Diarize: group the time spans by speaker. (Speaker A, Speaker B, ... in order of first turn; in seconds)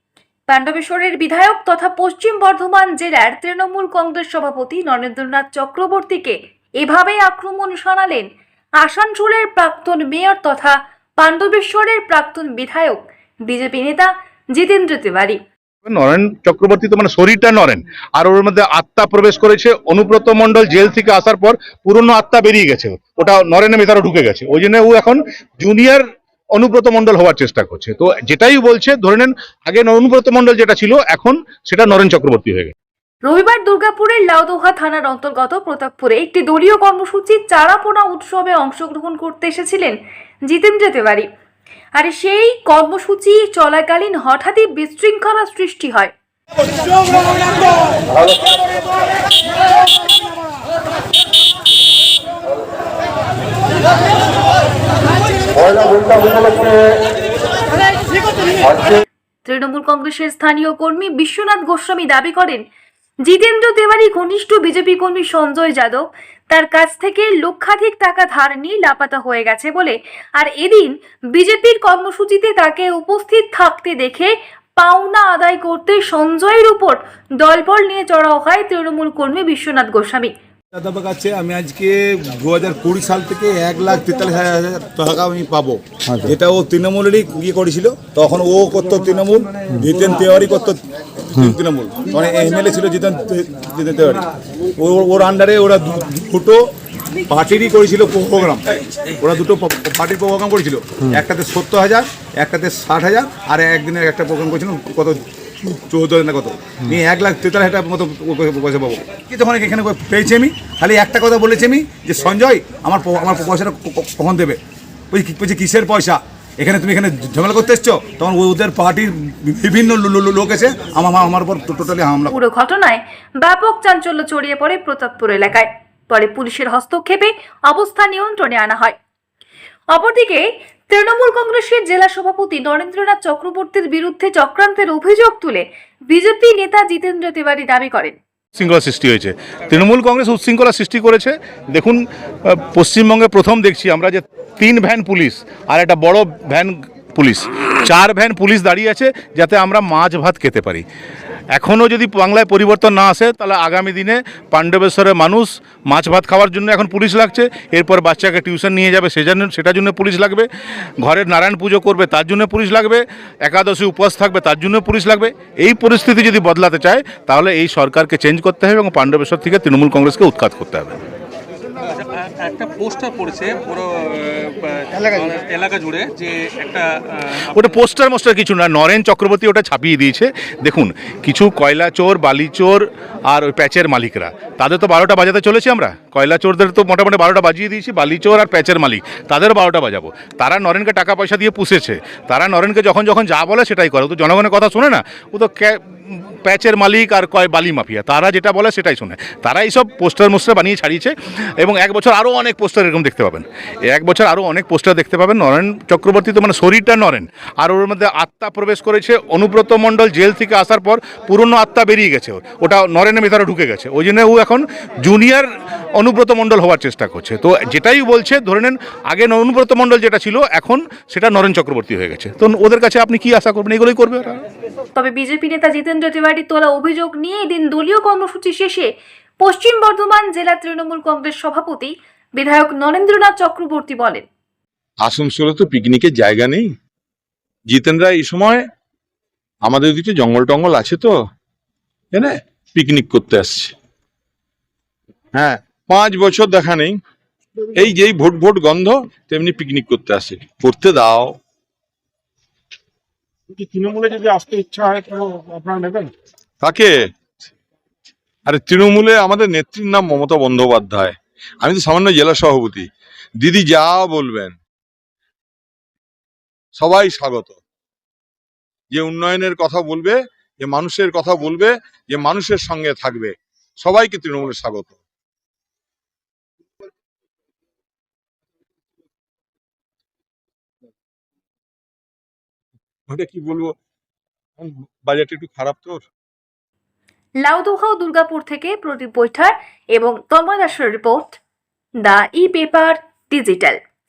Speaker A: 0.5-8.3, 8.8-15.4, 33.3-40.0, 40.5-41.3, 42.0-46.1, 55.9-56.4, 59.5-62.6, 63.3-80.3, 122.3-129.0, 129.9-138.2, 224.9-228.9, 229.4-234.3, 287.4-291.4, 292.0-293.8
Speaker B: 15.8-26.0, 26.6-32.7, 138.6-150.8, 151.6-160.5, 161.0-171.0, 177.5-224.4
Speaker C: 80.7-94.2, 94.8-96.6, 97.3-98.7, 99.2-114.6, 115.1-122.4
Speaker D: 171.9-177.5
Speaker E: 235.0-236.7, 237.7-238.7, 239.7-241.2, 242.1-243.7, 245.3-247.0, 247.8-251.4, 256.6-257.1, 258.5-262.9, 263.4-264.6, 266.8-267.6, 268.9-275.0, 283.1-283.8, 284.6-286.1
Speaker F: 253.5-256.1